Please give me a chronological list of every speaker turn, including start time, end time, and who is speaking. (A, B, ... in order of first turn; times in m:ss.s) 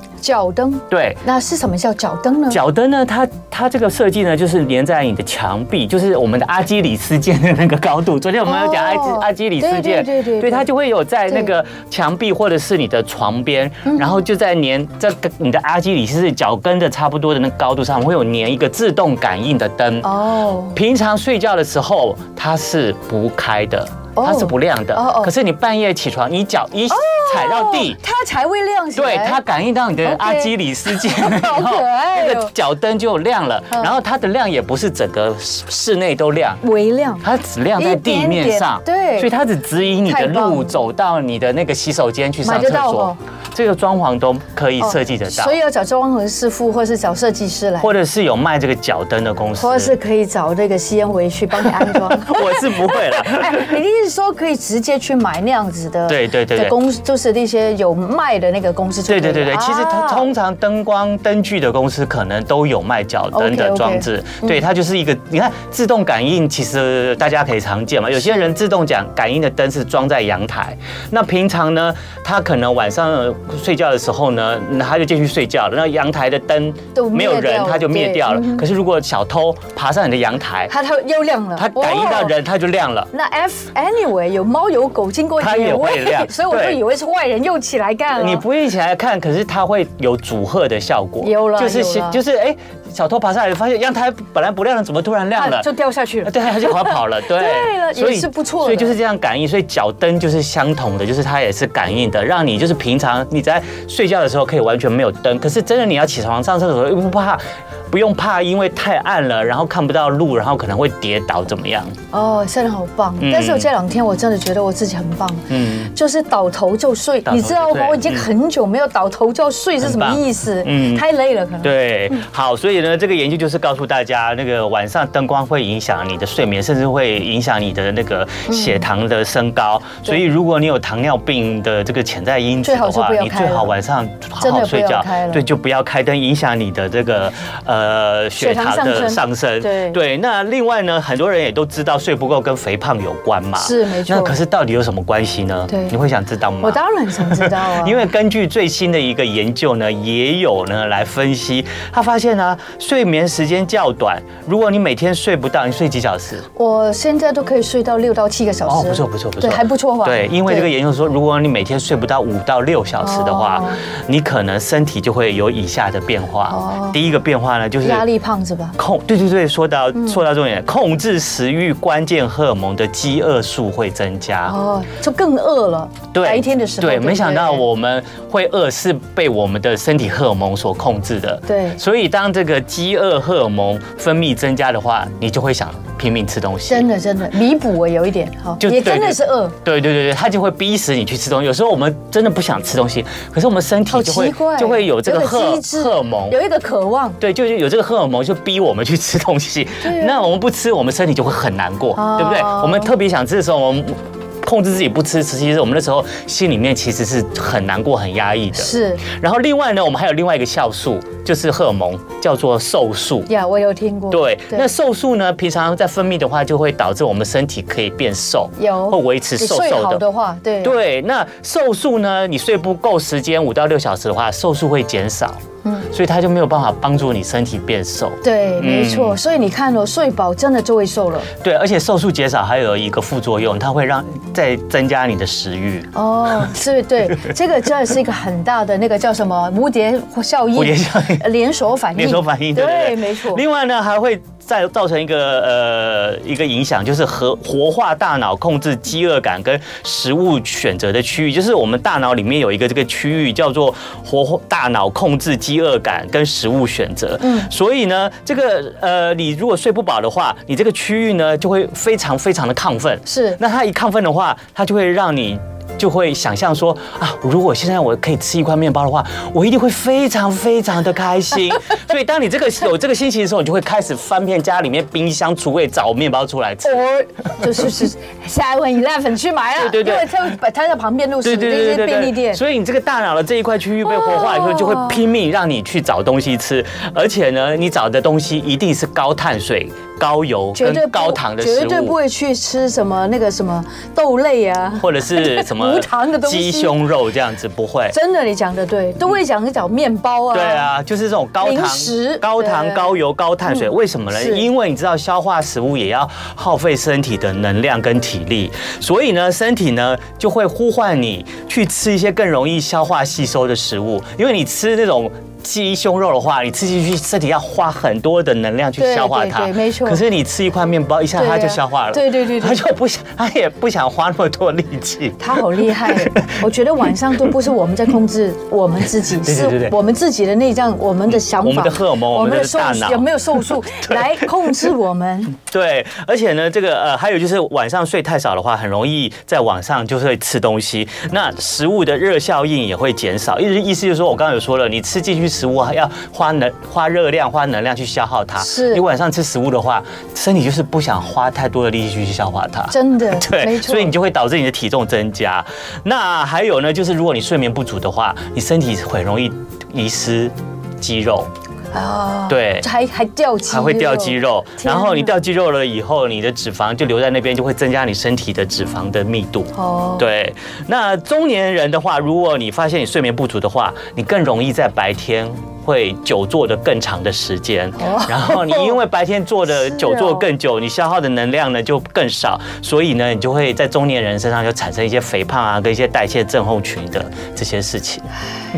0:00.2-0:02.6 A
0:00.9-0:01.2 B
0:02.5-0:20.1 B
0:08.4-0:10.7 A
0:13.9-0:14.1 A
0:20.0-0:20.8 A
0:20.7-0:28.0 B
0:24.2-0:25.3 A
0:26.9-0:29.4 A
0:29.0-0:36.6 B
0:30.0-0:32.5 A
0:36.6-0:37.2 A
0:37.2-0:45.6 B
0:37.8-0:39.3 A
0:40.0-0:40.7 A
0:42.4-0:43.2 A
0:44.8-0:47.9 A
0:47.8-0:50.0 B
0:49.6-1:00.3 A
0:51.8-0:53.7 B
0:56.1-0:56.8 B
0:59.1-1:20.7 B
1:03.3-1:04.6 A
1:17.0-1:18.7 A
1:20.7-1:22.4 A
1:21.6-1:23.1 B
1:23.1-1:28.4 A
1:25.4-1:26.8 B
1:28.2-1:35.7 B
1:31.2-1:32.2 A
1:35.4-1:39.0 A
1:36.2-1:52.0 B
1:52.1-2:02.2 A
1:53.2-1:53.7 B
1:55.5-1:55.9 B
1:57.3-1:58.3 B
1:59.8-2:01.1 B
2:01.6-2:36.4 B
2:08.5-2:08.9 A
2:12.6-2:13.7 A
2:14.4-2:15.4 A
2:18.4-2:20.0 A
2:23.6-2:24.4 A
2:25.7-2:25.9 A
2:26.6-2:28.0 A
2:36.6-2:40.7 A
2:38.7-2:48.1 B
2:43.0-2:43.8 A
2:46.5-2:47.0 A
2:47.8-2:48.8 A
2:48.8-2:54.6 B
2:54.5-2:57.6 A
2:56.1-3:06.9 B
3:01.5-3:01.8 A
3:06.7-3:09.6 A
3:08.6-3:16.4 B
3:13.9-3:17.2 A
3:17.2-3:33.3 B
3:19.8-3:20.2 A
3:22.0-3:22.9 A
3:28.6-3:29.0 A
3:33.3-3:34.7 A
3:34.1-3:40.0 B
3:38.6-3:40.8 A
3:40.6-3:49.2 B
3:48.2-3:51.3 A
3:51.4-3:55.9 B
3:56.0-4:03.4 A
4:00.5-4:01.3 B
4:02.0-4:36.9 B
4:17.2-4:17.5 A
4:23.1-4:23.4 A
4:36.6-4:42.4 A
4:39.6-4:40.4 B
4:41.2-4:52.0 B
4:43.8-4:45.0 A
4:50.6-4:56.8 A
4:54.8-4:58.0 B
4:57.9-5:00.7 A
5:00.3-5:26.4 B
5:01.4-5:04.5 A
5:18.8-5:20.0 A
5:21.2-5:22.6 A
5:25.2-5:35.3 A
5:29.2-5:29.8 B
5:31.1-5:33.1 B
5:33.8-5:34.6 B
5:35.4-6:01.3 B
5:48.4-5:48.8 A
5:52.7-5:53.9 A
6:01.7-6:05.2 A
6:02.3-6:02.7 B
6:03.5-6:28.1 B
6:09.6-6:10.0 A
6:17.8-6:18.8 A
6:19.5-6:20.2 A